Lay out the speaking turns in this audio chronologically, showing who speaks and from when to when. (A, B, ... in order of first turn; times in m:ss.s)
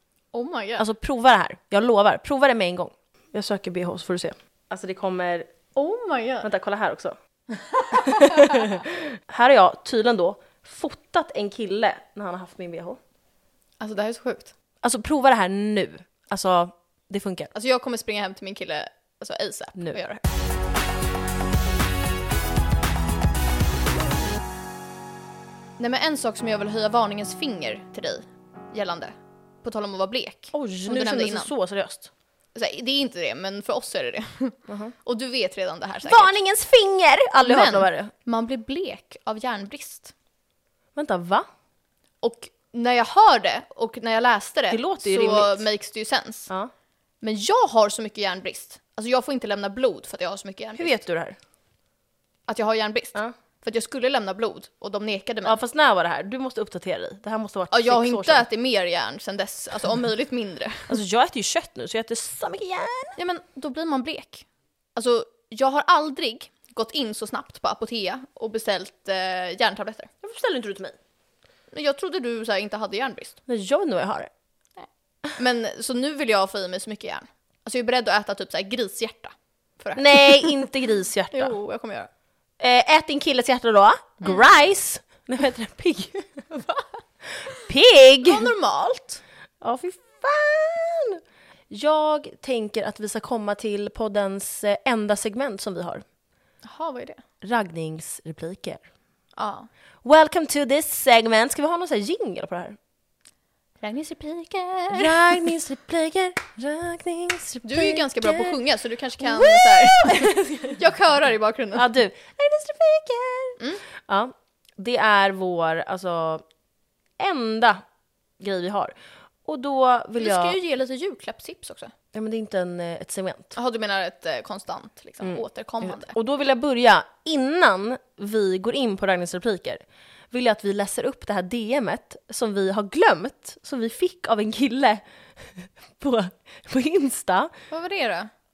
0:00.3-0:00.8 A
0:00.8-0:05.5 B
0:05.8-0:06.5 A
0:06.4-0:07.2 B
0:07.5-0:08.6 A
0:07.9-0:13.0 B
0:13.8-0:14.5 A
0:14.8-0:17.5 B
0:17.5-0:20.2 A
0:25.8-0:31.5 A
0:30.5-0:32.1 B
0:32.6-0:36.4 A
0:34.7-0:34.9 B
0:36.0-0:38.1 B
0:37.4-0:40.1 A
0:41.0-0:41.5 B
0:42.2-0:46.5 A
0:44.7-0:45.7 B
0:47.2-0:51.0 A
0:50.8-0:51.4 B
0:52.5-0:55.6 A
0:55.4-0:58.5 B
0:57.7-1:01.0 A
1:00.9-1:03.2 B
1:03.2-1:10.1 A
1:10.2-1:11.0 B
1:11.7-1:13.4 A
1:13.5-1:14.3 B
1:15.4-1:20.6 A
1:20.0-1:21.6 B
1:21.3-1:22.1 A
1:22.6-1:26.4 B
1:26.6-1:26.8 A
1:27.5-1:28.5 B
1:28.2-1:29.2 A
1:29.6-1:36.0 B
1:36.6-1:37.2 A
1:37.4-1:38.8 B
1:39.4-1:39.7 A
1:40.0-1:42.8 B
1:43.8-1:45.1 A
1:44.9-1:48.6 B
1:47.6-1:51.9 A
1:49.2-1:50.8 B
1:51.8-1:56.4 B
1:57.2-1:57.8 B
1:58.4-1:58.9 B
1:59.4-2:00.6 B
2:00.2-2:01.9 A
2:02.1-2:03.6 B
2:03.6-2:06.2 A
2:05.2-2:17.5 B
2:17.7-2:18.3 A